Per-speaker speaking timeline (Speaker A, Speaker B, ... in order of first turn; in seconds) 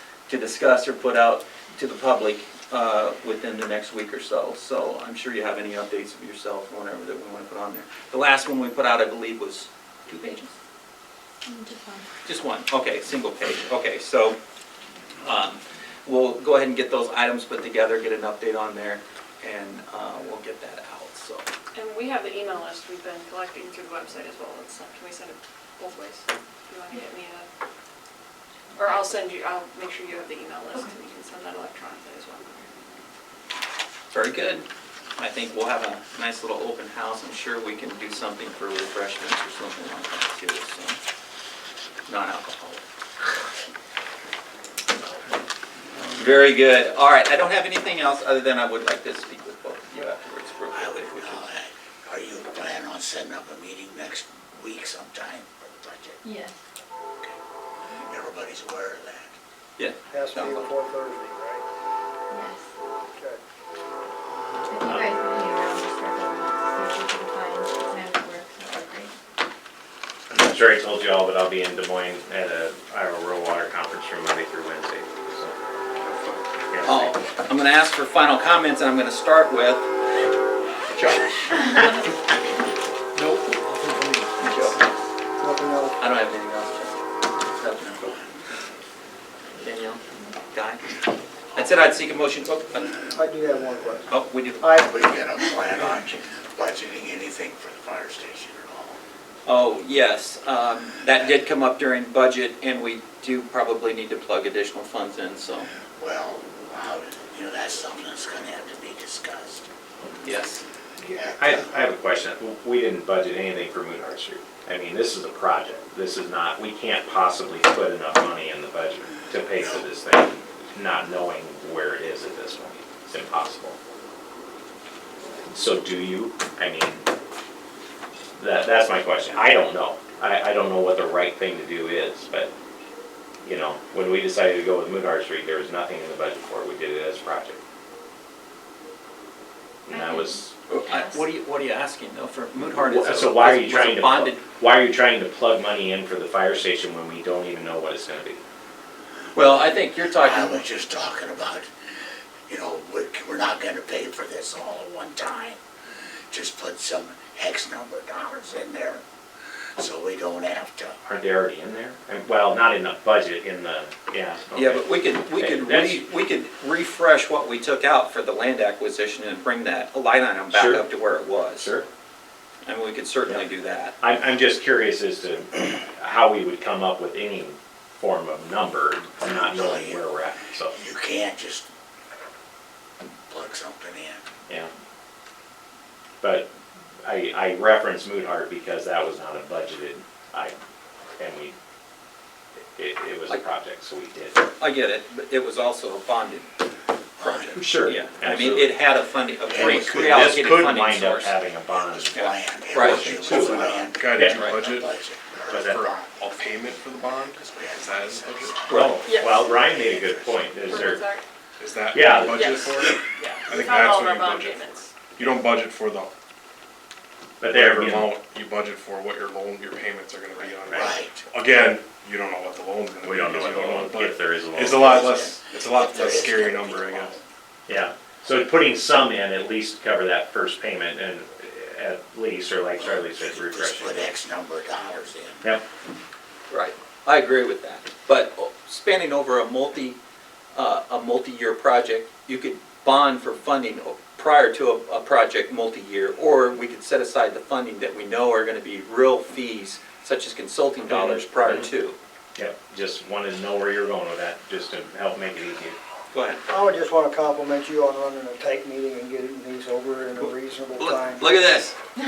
Speaker A: 0.3-10.5, 12.2-14.4, 15.2-21.5, 34.1-34.6, 35.2-41.0, 42.1-42.9, 46.2-51.5, 59.8-60.7, 76.8-79.9, 80.9-82.0, 84.4-84.8, 86.0-88.2, 89.6-91.0, 91.5-93.0, 94.1-94.8, 99.5-105.7, 110.2-110.6, 140.7-144.4, 149.3-150.6, 164.6-171.7, 172.7-173.9, 194.6-196.5, 197.2-201.3, 202.1-204.6, 208.7-209.0, 236.5-240.0, 240.6-252.0, 256.1-256.4, 260.2-261.8
Speaker B: 11.5-12.1, 56.2-56.5, 62.3-62.6, 64.7-69.1, 140.1-140.3
Speaker C: 21.8-27.5, 28.8-32.7, 210.7-211.2, 212.3-212.6, 213.2-214.9
Speaker D: 50.7-56.2, 58.1-59.4, 94.8-99.0, 106.0-109.7, 111.1-111.7, 119.6-119.8, 150.1-151.7, 152.5-155.6, 156.3-159.0, 159.8-161.0, 179.3-180.0, 180.7-181.7, 183.3-184.2, 197.2-197.6, 199.5-200.5, 201.7-206.2, 207.3-211.0, 220.4-221.3, 224.7-227.2, 232.8-235.5
Speaker E: 60.1-61.6, 63.2-63.4, 85.4-86.0, 93.1-94.9, 256.5-261.3
Speaker F: 64.8-65.2, 70.3-75.6, 76.7-77.2, 111.0-123.8, 125.5-127.1, 128.4-132.5, 133.4-137.6, 139.9-140.5, 142.8-148.4, 161.0-166.0, 170.5-170.9, 171.5-171.9, 174.0-180.8, 186.2-186.5, 187.0-190.6, 191.2-191.6, 192.8-194.5, 197.6-198.8, 199.5-204.5, 205.5-205.8, 208.7-211.0, 211.9-212.8, 217.4-218.2, 220.7-220.9, 223.0-225.0, 227.7-234.1, 250.9-251.7, 252.4-255.8
Speaker G: 76.0-76.4, 203.0-204.9, 205.5-208.6, 211.6-216.1, 217.4-227.2